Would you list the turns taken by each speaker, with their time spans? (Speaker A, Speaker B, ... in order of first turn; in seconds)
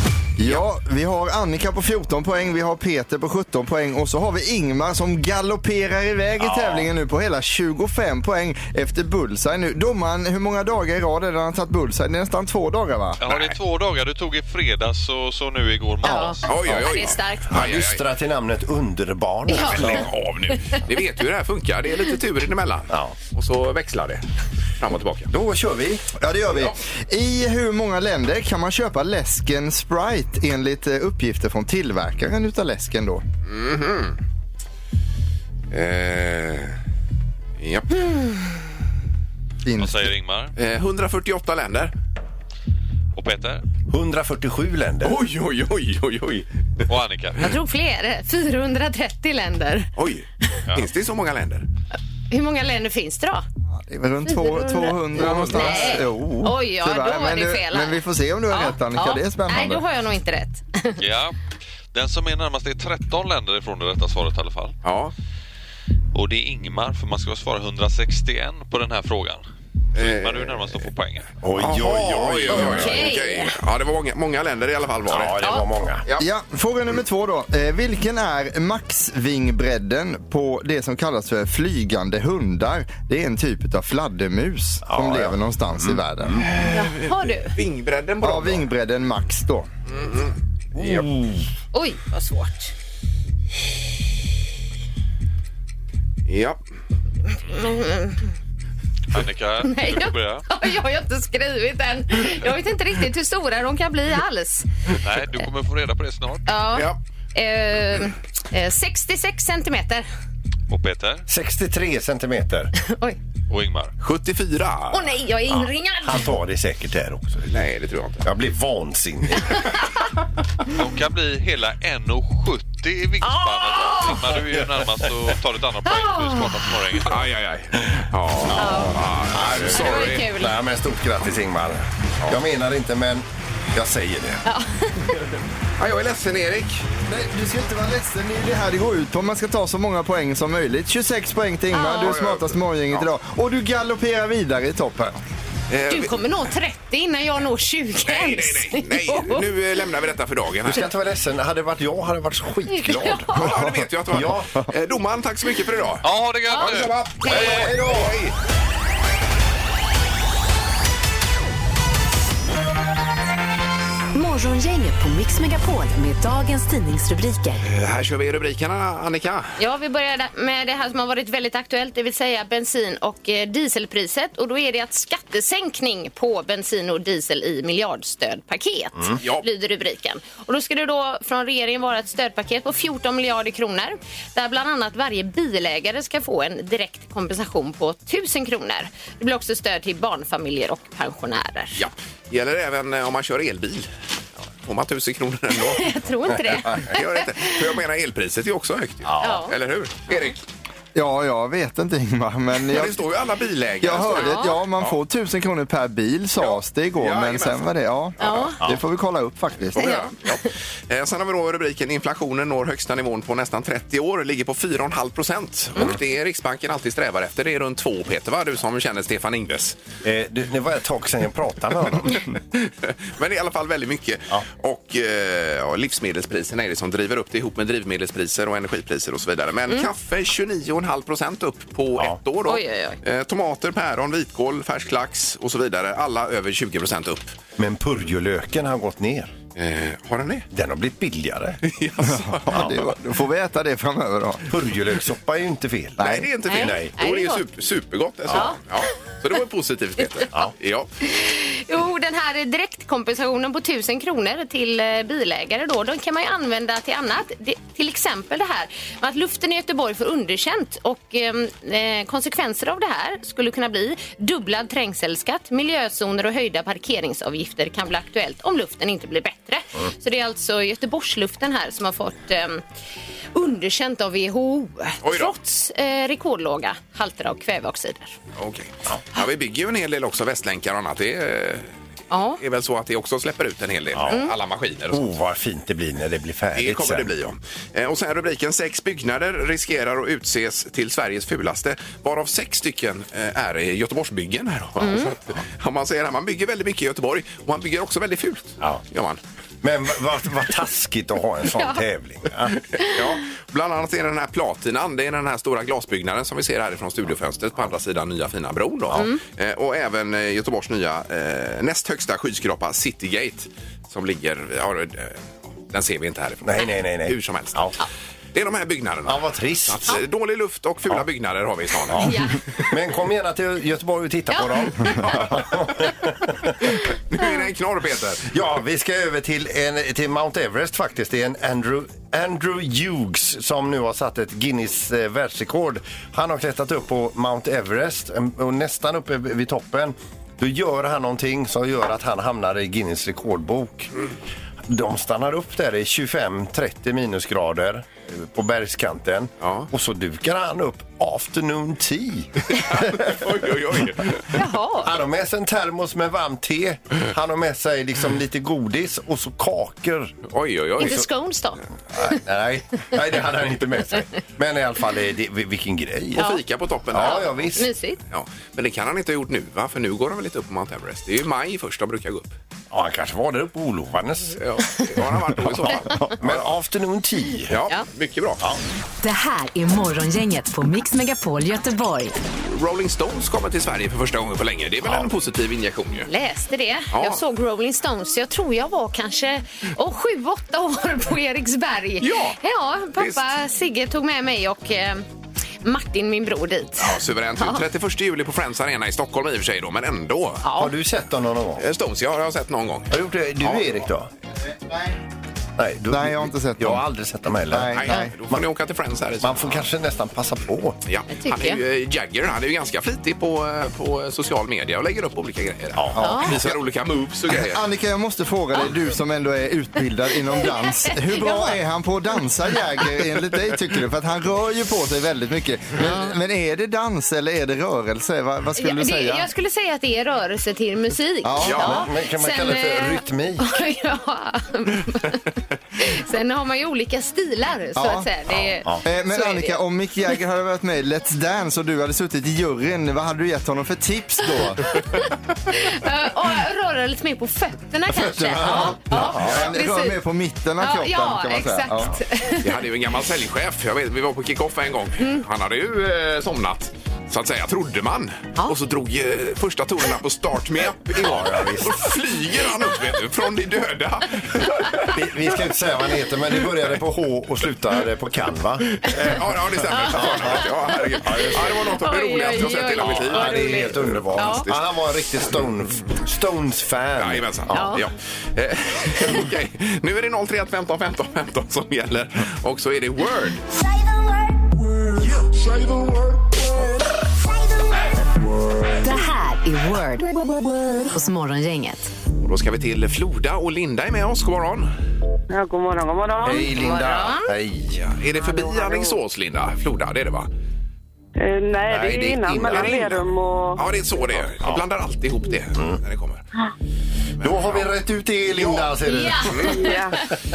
Speaker A: 0.4-13.2, 26.2-33.2, 39.6-40.1, 53.9-59.8, 76.2-86.5, 88.2-89.7, 137.1-145.2, 153.4-153.8, 200.9-203.0, 203.8-210.0, 242.0-244.5, 246.0-246.3, 404.4-405.0, 405.9-406.8, 407.4-408.1, 415.9-416.5, 417.3-429.3, 431.2-431.8, 437.8-438.1, 438.8-444.8, 448.2-451.9
Speaker B: 6.4-6.9, 16.4-18.0, 19.6-24.2, 24.8-25.3, 33.5-34.2, 35.7-36.8, 37.6-38.1, 40.6-41.9, 45.0-46.8, 50.0-51.6, 55.2-56.0, 64.8-65.1, 69.9-70.8, 71.6-75.4, 86.4-88.7, 89.9-91.1, 96.3-96.6, 114.0-115.0, 117.5-118.3, 127.1-130.2, 135.8-136.8, 142.0-143.1, 145.7-146.2, 148.0-150.9, 153.3-158.3, 167.6-169.6, 191.8-193.9, 194.6-195.9, 196.7-200.4, 202.7-204.9, 206.4-207.7, 209.7-219.8, 221.9-237.4, 239.6-240.5, 241.6-242.9, 246.0-250.9, 275.0-275.3, 278.4-281.7, 282.4-285.1, 286.5-299.2, 302.7-317.7, 318.3-322.2, 325.0-325.4, 326.8-328.3, 349.4-349.7, 352.5-354.4, 360.3-361.0, 366.1-367.6, 368.1-372.3, 374.4-376.4, 377.5-378.4, 382.4-386.1, 386.9-387.2, 392.0-392.4, 393.0-393.2, 396.8-400.4, 401.6-403.7, 407.7-409.7, 410.8-417.6, 431.4-431.8, 452.4-465.0, 468.8-474.6, 477.0-483.4, 492.2-494.7, 497.7-500.3, 502.4-503.0, 503.6-506.2, 507.2-507.7, 508.3-509.7
Speaker C: 13.2-16.8, 39.8-40.5, 43.1-43.6, 46.9-47.5, 61.0-61.3, 61.9-64.7, 66.1-69.4, 70.0-71.3, 99.1-100.5, 105.0-106.5, 110.7-111.2, 113.5-113.9, 120.7-127.2, 156.0-157.4
Speaker D: 16.0-17.5, 19.5-20.8, 47.4-49.9, 52.3-53.4, 54.2-61.0, 72.5-73.5, 86.7-87.5, 91.7-92.7, 97.5-98.2, 99.6-104.7, 106.5-110.0, 112.8-113.2, 114.9-116.3, 123.2-124.2, 125.8-126.6, 128.5-130.6, 134.4-135.2, 141.7-142.2, 145.9-149.5, 152.7-153.4, 156.5-157.7, 169.6-191.8, 195.7-197.6, 199.2-199.5, 204.1-204.6, 208.2-208.6, 209.8-210.5, 232.5-233.0, 246.5-247.4, 248.3-248.6, 251.0-272.6, 273.3-278.1, 282.1-282.4, 284.1-284.3, 294.8-295.1, 301.6-301.8, 308.9-309.2, 322.0-322.4, 324.3-325.3, 354.3-354.9, 360.8-361.6, 366.2-366.4, 366.9-368.0, 386.1-395.0, 395.6-397.6, 400.4-400.7, 411.1-411.6, 416.0-416.4, 420.8-421.6, 425.8-426.1, 428.6-435.3, 435.8-439.6, 444.8-450.0, 450.6-452.5, 469.7-470.3, 471.8-474.5, 477.5-477.8, 496.6-497.3, 508.8-509.9
Speaker E: 17.5-20.1, 22.9-23.1, 25.3-26.1, 43.9-45.2, 71.4-73.1, 75.1-76.0, 84.8-86.4, 90.8-91.4, 111.3-112.7, 116.0-117.5, 118.2-119.6, 128.4-134.4, 150.6-153.5, 154.1-154.5, 157.3-158.2, 199.0-199.4, 220.0-222.2, 237.6-239.3, 240.5-241.6, 244.5-246.9, 283.9-284.2, 284.9-287.1, 299.6-302.6, 316.4-317.8, 319.1-320.0, 321.9-326.5, 328.3-343.9, 344.7-353.1, 354.8-360.1, 360.8-361.1, 361.9-366.3, 366.9-367.7, 372.7-374.4, 375.4-377.6, 384.8-385.1, 400.5-401.6, 402.9-404.1, 405.6-408.5, 409.2-410.8, 415.7-416.5, 431.5-433.4, 447.9-448.9, 460.9-461.9, 464.9-469.3, 469.8-471.7, 472.8-477.8, 496.2-497.8, 501.7-503.0, 507.2-509.4
Speaker F: 164.1-167.6, 379.0-382.1, 488.8-490.1, 490.8-491.9
Speaker G: 495.3-496.8, 498.2-499.0, 501.2-503.6, 509.5-510.0